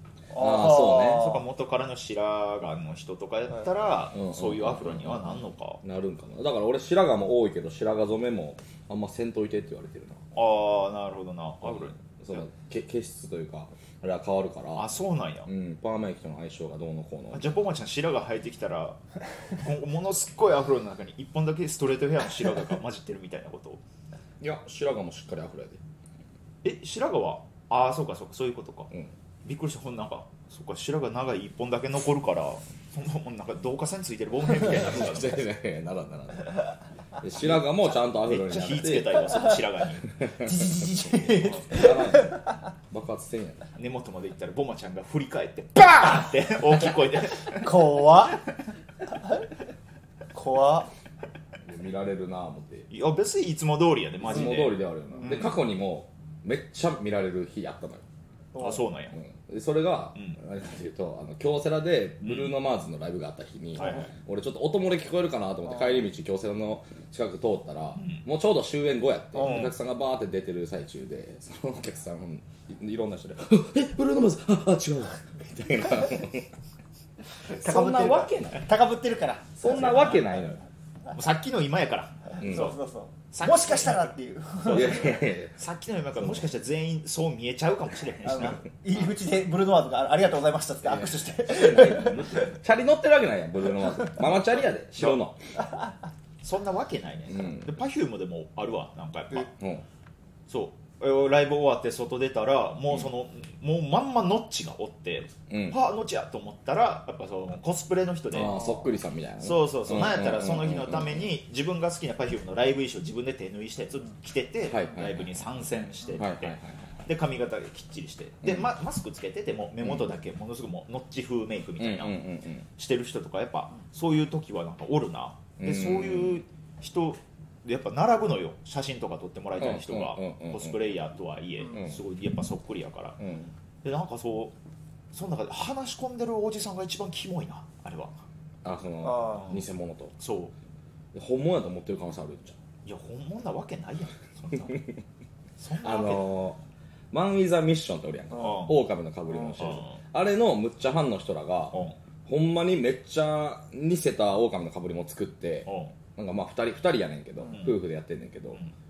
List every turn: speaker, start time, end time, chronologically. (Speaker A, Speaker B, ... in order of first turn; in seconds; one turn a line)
Speaker A: 0.3-1.4
Speaker B: 0.3-1.3
Speaker C: 0.9-5.8
Speaker B: 4.1-10.2
Speaker C: 10.3-12.4
Speaker B: 11.6-14.9
Speaker C: 14.8-15.5
Speaker B: 15.5-17.4
Speaker C: 17.3-19.0
Speaker C: 19.6-23.8
Speaker B: 24.4-25.8
Speaker C: 26.6-28.9
Speaker C: 29.4-35.5
Speaker B: 34.5-39.3
Speaker C: 37.4-40.1
Speaker A: 40.4-42.4
Speaker C: 41.2-41.5
Speaker B: 41.7-42.4
Speaker B: 42.9-43.7
Speaker C: 43.8-48.0
Speaker A: 47.5-48.4
Speaker A: 50.3-50.9
Speaker B: 51.6-52.9
Speaker C: 52.9-55.6
Speaker B: 54.2-58.0
Speaker A: 58.5-58.8
Speaker C: 58.6-59.2
Speaker B: 59.1-76.5
Speaker C: 62.2-62.6
Speaker C: 63.8-64.1
Speaker C: 68.0-68.2
Speaker C: 69.4-69.7
Speaker B: 77.5-78.7
Speaker A: 77.5-80.0
Speaker B: 79.6-80.6
Speaker C: 79.7-80.2
Speaker C: 81.1-82.8
Speaker B: 82.4-82.7
Speaker A: 82.4-85.2
Speaker C: 83.3-88.6
Speaker B: 84.7-85.5
Speaker B: 86.2-86.5
Speaker A: 88.3-92.5
Speaker B: 90.9-95.4
Speaker C: 96.4-99.5
Speaker B: 97.3-97.8
Speaker B: 99.5-99.8
Speaker C: 100.5-108.6
Speaker B: 105.5-105.8
Speaker B: 108.3-111.3
Speaker A: 108.5-108.8
Speaker C: 109.4-133.2
Speaker B: 114.7-115.3
Speaker B: 116.2-116.8
Speaker B: 119.8-120.1
Speaker B: 121.8-122.7
Speaker B: 125.6-126.4
Speaker B: 129.6-130.8
Speaker B: 131.7-132.0
Speaker B: 133.2-133.5
Speaker C: 133.8-134.6
Speaker C: 135.1-138.2
Speaker B: 138.6-140.1
Speaker A: 139.0-139.5
Speaker C: 139.3-139.7
Speaker C: 140.2-140.5
Speaker B: 141.1-142.6
Speaker C: 142.8-144.8
Speaker C: 145.6-146.3
Speaker B: 145.8-146.6
Speaker B: 147.1-158.6
Speaker C: 148.4-148.8
Speaker C: 149.5-150.0
Speaker C: 151.7-152.0
Speaker C: 155.7-155.9
Speaker C: 157.5-157.8